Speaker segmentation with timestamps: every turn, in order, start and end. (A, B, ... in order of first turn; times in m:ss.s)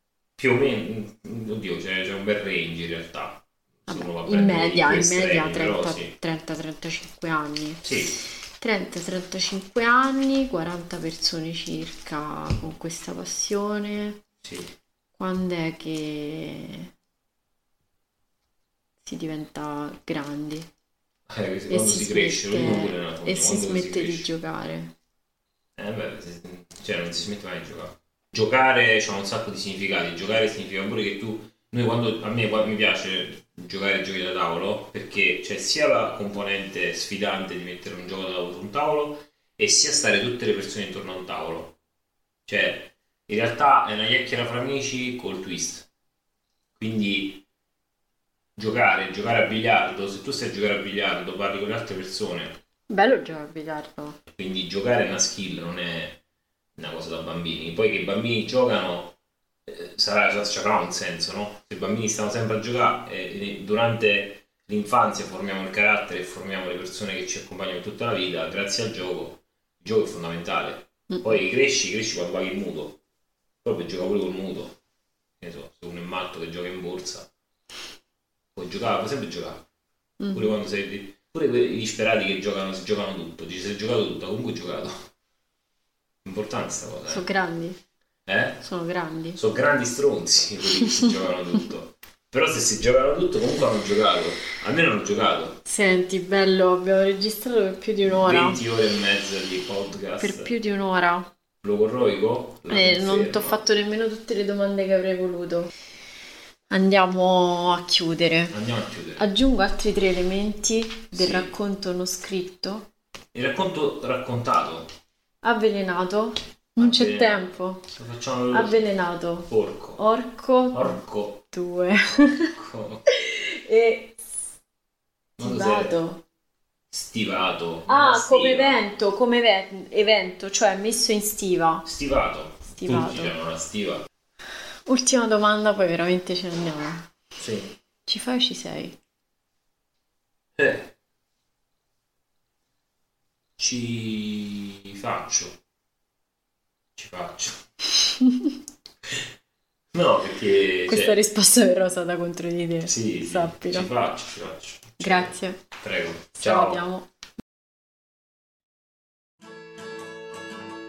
0:00.4-0:06.1 A
0:03.9-0:14.2 B
0:07.8-0:08.2 A
0:14.4-0:14.7 A
0:15.2-0:16.9 B
0:19.0-0:20.7 B
0:21.3-0:24.3 A
0:21.7-0:24.9 B
0:25.8-0:41.8 A
0:42.5-0:45.9 A
0:46.8-0:47.4 A
0:48.6-0:52.6 A
0:52.9-0:54.2 B
0:54.3-0:56.2 A
0:56.8-1:13.0 A
1:13.6-1:14.8 A
1:15.4-1:17.3 A
1:18.5-1:19.6 A
1:20.2-1:20.5 B
1:20.3-1:25.1 A
1:26.2-1:27.3 A
1:27.1-1:27.8 B
1:28.3-1:28.6 A
1:28.6-1:29.4 B
1:29.4-1:35.6 A
1:30.8-1:31.1 B
1:35.6-1:38.6 B
1:38.0-1:40.5 A
1:40.2-1:41.3 B
1:41.6-1:43.6 A
1:42.7-1:45.7 B
1:46.7-1:48.5 B
1:48.5-1:49.3 A
1:49.2-1:52.9 B
1:51.1-1:51.5 A
1:53.3-1:54.9 A
1:55.4-1:57.9 B
1:56.8-2:00.0 A
1:58.5-2:02.5 B
2:00.7-2:01.4 A
2:02.4-2:03.1 A
2:03.1-2:04.2 B
2:05.4-2:06.0 A
2:05.4-2:06.2 B
2:06.9-2:08.9 A
2:07.9-2:11.9 B
2:11.8-2:14.1 A
2:12.7-2:13.4 B
2:14.9-2:17.1 B
2:17.4-2:17.7 A
2:18.1-2:19.0 B
2:20.6-2:20.9 A
2:23.6-2:25.6 A
2:27.0-2:27.6 A
2:28.0-2:28.5 B
2:29.9-2:31.2 A
2:30.9-2:33.9 B
2:32.8-2:36.8 A
2:35.0-2:35.6 B
2:36.4-2:37.1 B